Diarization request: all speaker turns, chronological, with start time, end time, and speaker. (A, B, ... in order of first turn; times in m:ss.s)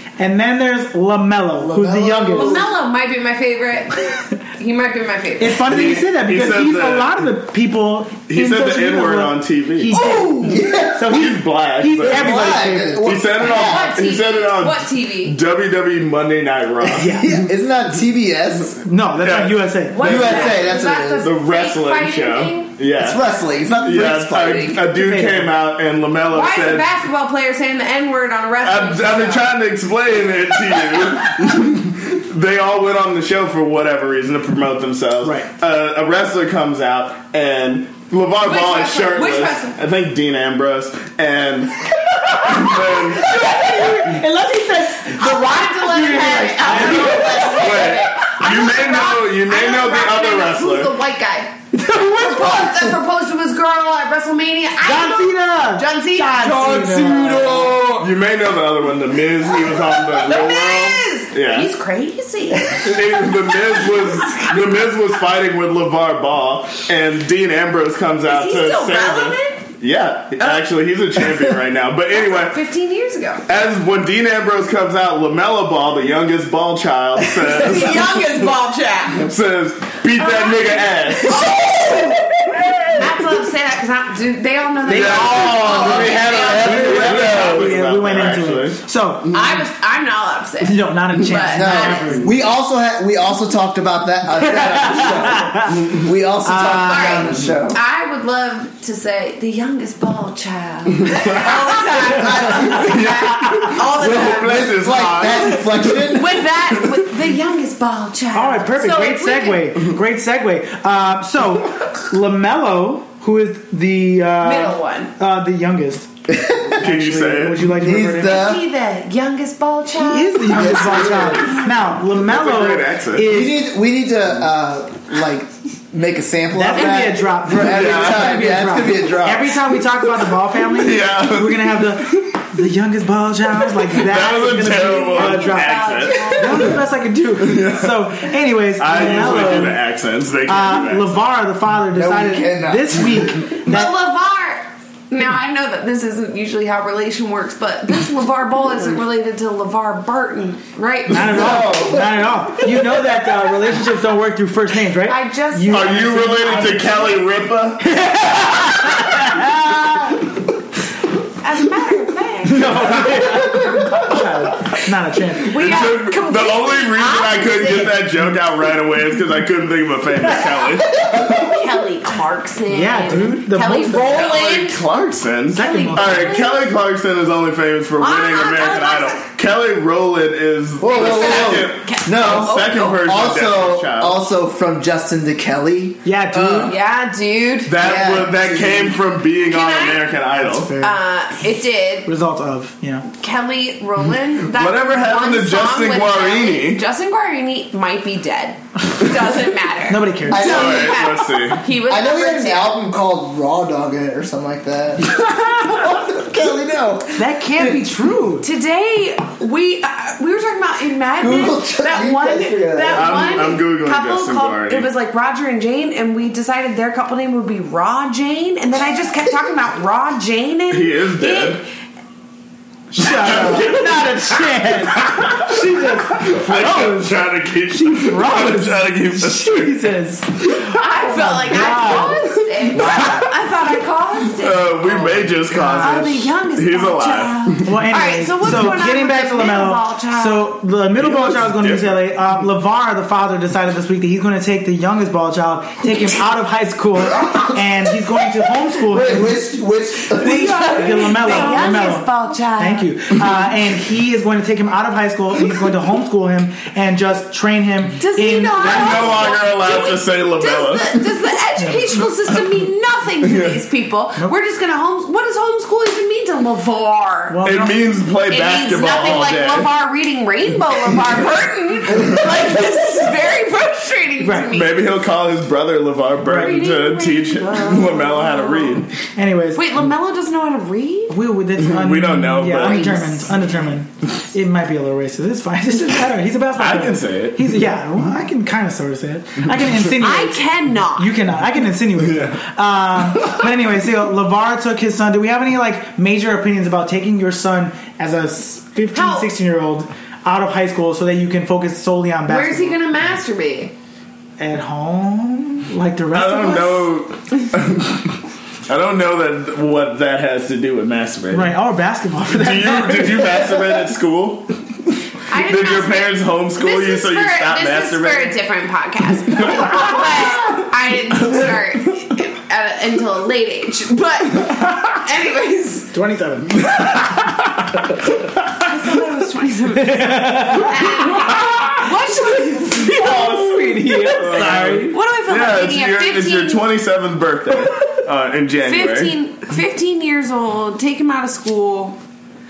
0:00.2-0:02.7 A
0:01.6-0:02.7 B
0:02.3-0:05.8 C
0:05.4-0:13.2 A
0:05.7-0:07.3 D
0:08.3-0:10.0 D
0:09.9-0:10.6 C
0:10.0-0:11.2 B
0:11.1-0:17.4 D
0:12.0-0:14.0 B
0:13.4-0:15.4 C
0:17.0-0:17.4 A
0:17.0-0:18.8 B
0:18.8-0:20.5 A
0:19.2-0:23.2 D
0:19.9-0:22.7 C
0:20.0-0:21.3 B
0:23.0-0:24.8 B
0:23.8-0:26.9 D
0:24.9-0:25.5 A
0:26.3-0:29.5 C
0:28.6-0:43.6 D
0:35.2-0:35.5 A
0:38.4-0:39.8 C
0:42.9-0:47.8 A
0:45.1-0:56.6 C
0:46.2-0:47.6 B
0:47.2-0:50.9 D
0:51.8-0:52.5 A
0:54.8-0:57.8 A
0:56.4-0:58.0 B
0:57.5-1:01.7 D
0:59.4-1:04.6 C
1:02.8-1:12.6 D
1:08.3-1:09.6 C
1:12.1-1:13.4 C
1:13.5-1:18.5 D
1:17.4-1:19.3 C
1:19.1-1:22.0 D
1:20.2-1:22.2 C
1:23.0-1:27.7 C
1:24.8-1:29.5 A
1:24.9-1:28.8 D
1:27.1-1:27.4 B
1:29.3-1:32.2 C
1:30.6-1:32.3 A
1:31.5-1:37.8 B
1:34.4-1:37.4 A
1:36.8-1:44.7 C
1:41.0-1:46.1 D
1:42.0-1:43.0 B
1:43.9-1:46.4 B
1:46.1-1:49.7 C
1:48.3-1:56.1 A
1:54.4-1:55.1 C
1:56.3-1:56.8 B
1:56.8-1:58.5 A
1:56.8-1:57.8 D
1:57.8-1:58.6 B
1:58.2-2:01.3 C
1:59.9-2:03.6 A
2:00.5-2:01.6 B
2:01.8-2:03.3 D
2:03.3-2:09.6 B
2:06.5-2:19.8 A
2:07.5-2:08.4 D
2:10.6-2:12.3 D
2:13.7-2:16.8 D
2:15.0-2:16.8 C
2:17.4-2:18.2 D
2:18.8-2:21.2 D
2:20.5-2:23.9 A
2:21.9-2:23.4 B
2:23.7-2:31.6 C
2:31.1-2:36.9 A
2:31.1-2:32.4 B
2:35.0-2:37.2 C
2:35.7-2:38.0 D
2:37.8-2:40.3 A
2:38.5-2:39.1 D
2:41.4-2:43.0 C
2:42.4-2:45.9 A
2:43.6-2:43.9 B
2:45.4-2:48.0 C
2:45.5-2:51.6 D
2:51.0-2:51.4 B
2:51.1-2:54.8 C
2:52.7-2:54.2 A
2:54.0-3:04.2 D
2:55.5-2:56.4 A
2:55.6-2:56.7 C
2:58.0-2:59.3 C
3:00.8-3:06.7 B
3:00.9-3:03.0 C
3:06.0-3:06.8 A
3:06.4-3:08.2 C
3:07.7-3:10.8 D
3:07.8-3:09.0 B
3:09.5-3:10.1 C
3:10.4-3:11.0 A
3:10.8-3:12.1 C
3:12.1-3:13.1 A
3:13.1-3:22.8 C
3:14.4-3:16.8 D
3:19.9-3:20.7 A
3:20.3-3:21.0 B
3:20.3-3:21.6 D
3:21.9-3:27.8 B
3:27.2-3:28.5 A
3:28.4-3:41.6 C
3:31.2-3:33.3 B
3:32.9-3:34.9 D
3:40.7-3:41.6 D
3:42.9-3:47.2 A
3:43.0-3:49.8 D
3:47.7-3:53.1 A
3:50.6-4:00.5 C
3:52.7-3:53.3 D
3:54.3-3:57.7 D
3:55.1-3:56.1 A
3:57.6-4:09.4 A
4:01.0-4:02.0 D
4:08.9-4:11.3 B
4:10.2-4:19.2 A
4:10.2-4:12.9 C
4:18.0-4:27.4 C
4:18.6-4:21.0 D
4:21.6-4:21.9 A
4:23.2-4:23.6 D
4:27.3-4:27.9 A
4:27.4-4:29.7 D
4:28.3-4:34.8 C
4:34.2-4:34.5 A
4:34.5-4:38.9 D
4:36.2-4:36.6 A
4:36.3-4:38.9 C
4:39.1-4:39.8 A
4:39.6-4:41.2 C
4:41.1-5:02.8 A
4:41.6-4:43.3 D
4:42.6-4:43.6 C
4:46.6-4:47.7 D
4:50.0-4:51.2 C
4:52.0-4:52.4 D
4:58.9-4:59.3 C
5:02.3-5:03.7 C
5:04.4-5:06.9 A
5:06.1-5:08.2 D
5:08.7-5:11.5 D
5:11.3-5:13.6 A
5:12.3-5:18.4 D
5:15.3-5:25.9 C
5:19.4-5:19.9 D
5:25.9-5:27.1 A
5:28.6-5:36.6 C
5:29.8-5:31.8 A
5:32.4-5:35.0 A
5:33.0-5:33.4 D
5:34.0-5:39.1 D
5:38.6-5:42.0 C